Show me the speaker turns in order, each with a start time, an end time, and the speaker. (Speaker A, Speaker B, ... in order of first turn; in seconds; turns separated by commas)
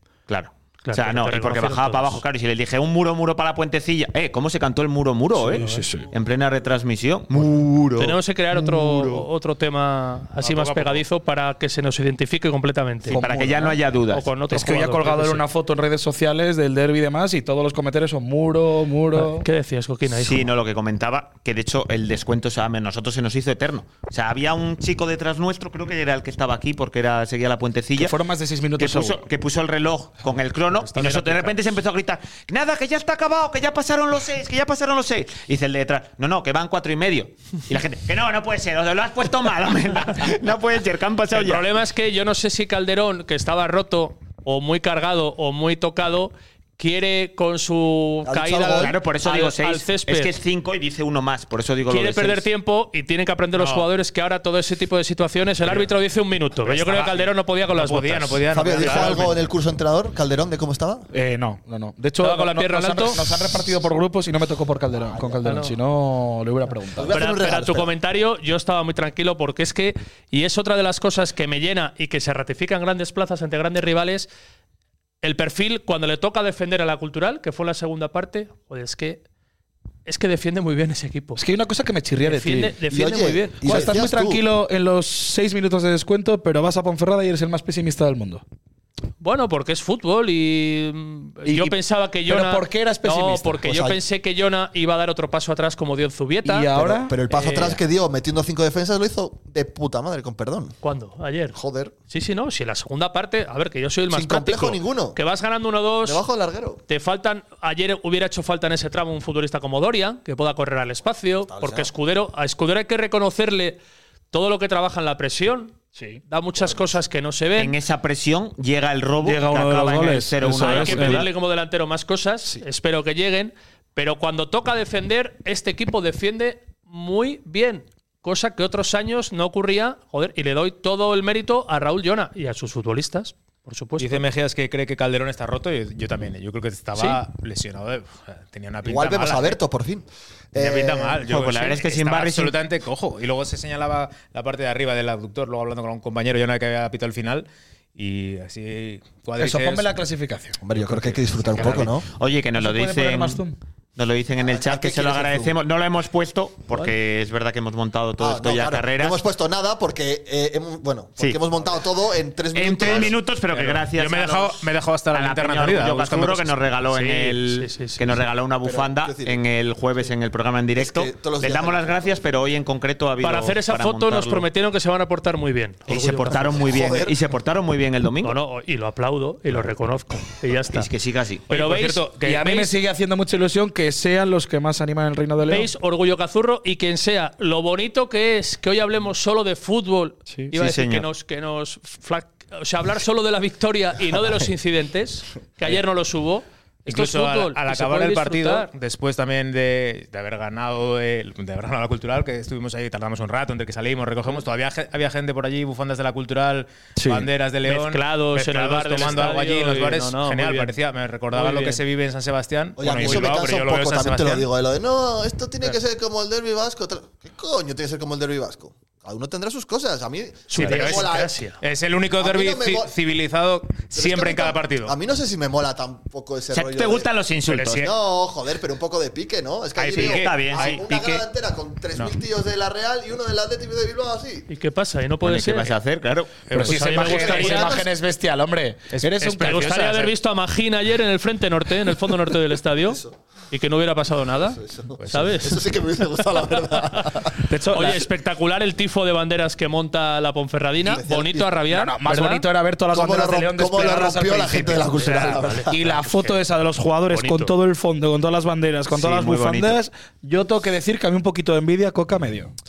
Speaker A: 0.3-8.1, Speaker B: 0.8-2.2, Speaker C: 5.4-6.1, Speaker B: 8.0-13.2, Speaker D: 10.4-11.1, Speaker C: 13.1-13.8, Speaker A: 13.1-14.3, Speaker B: 14.1-15.4, Speaker C: 14.5-19.5, Speaker B: 19.1-20.5, Speaker A: 20.1-28.2, Speaker C: 28.0-29.2, Speaker A: 28.8-41.7, Speaker B: 30.9-31.6, Speaker B: 41.3-50.4, Speaker E: 48.2-49.0, Speaker A: 48.8-52.5, Speaker B: 51.9-59.2, Speaker D: 53.5-53.9, Speaker D: 55.6-56.0, Speaker D: 56.6-59.5, Speaker E: 58.5-61.1, Speaker C: 61.1-67.2, Speaker B: 62.2-63.3, Speaker B: 65.4-65.8, Speaker E: 67.0-67.9, Speaker B: 67.1-74.3, Speaker B: 75.2-79.2, Speaker B: 80.1-81.4, Speaker C: 81.4-82.8, Speaker B: 82.2-83.9, Speaker E: 82.9-84.4, Speaker C: 83.6-88.4, Speaker B: 89.2-96.7, Speaker C: 91.5-93.6, Speaker E: 93.7-94.0, Speaker C: 96.4-97.2, Speaker E: 96.8-100.8, Speaker B: 97.3-97.8, Speaker B: 100.8-101.6, Speaker E: 101.5-101.9, Speaker B: 102.1-106.2, Speaker E: 104.1-105.2, Speaker E: 106.0-106.8, Speaker B: 106.9-113.8, Speaker E: 111.4-111.9, Speaker B: 114.3-117.8, Speaker C: 116.0-116.2, Speaker E: 116.6-117.0, Speaker A: 117.6-121.3, Speaker C: 119.2-121.3, Speaker B: 120.5-134.2, Speaker D: 134.0-139.6, Speaker B: 136.9-137.2, Speaker E: 138.8-141.2, Speaker D: 140.6-149.9, Speaker A: 141.2-142.6, Speaker C: 149.4-150.6, Speaker E: 150.6-152.1, Speaker D: 150.7-151.9, Speaker A: 151.6-153.4, Speaker C: 152.6-153.6, Speaker A: 154.0-159.2, Speaker E: 154.4-155.6, Speaker E: 158.2-163.2, Speaker A: 162.5-174.5, Speaker D: 162.9-167.4, Speaker B: 167.4-168.2, Speaker E: 168.6-169.4, Speaker E: 170.8-172.3, Speaker B: 173.2-176.7, Speaker A: 175.9-178.4, Speaker E: 176.3-177.2, Speaker B: 178.2-180.9, Speaker A: 180.7-181.5, Speaker B: 181.5-182.7, Speaker D: 181.5-182.5, Speaker C: 181.8-185.7, Speaker B: 185.4-198.7, Speaker A: 190.5-191.1, Speaker D: 196.9-214.5, Speaker C: 207.0-207.3, Speaker B: 207.6-210.8, Speaker B: 211.3-211.8, Speaker E: 212.8-221.4, Speaker B: 213.0-213.4, Speaker B: 220.5-221.6, Speaker D: 220.6-225.0, Speaker E: 222.2-222.9, Speaker E: 223.9-227.1, Speaker A: 226.5-227.9, Speaker D: 227.5-227.9, Speaker E: 227.7-234.5, Speaker D: 229.8-231.2, Speaker A: 229.9-230.8, Speaker B: 234.5-235.8, Speaker A: 235.2-236.3, Speaker D: 236.5-237.7, Speaker C: 236.5-240.0, Speaker B: 236.6-237.8, Speaker E: 237.2-237.8, Speaker D: 238.9-240.1, Speaker B: 239.3-245.7, Speaker E: 242.8-243.2, Speaker E: 244.5-247.4, Speaker D: 245.0-245.5, Speaker B: 247.0-252.4, Speaker C: 247.5-248.1, Speaker E: 250.8-251.6, Speaker C: 251.7-262.5, Speaker E: 252.9-255.9, Speaker B: 254.8-256.4, Speaker B: 257.1-257.5, Speaker A: 258.9-259.8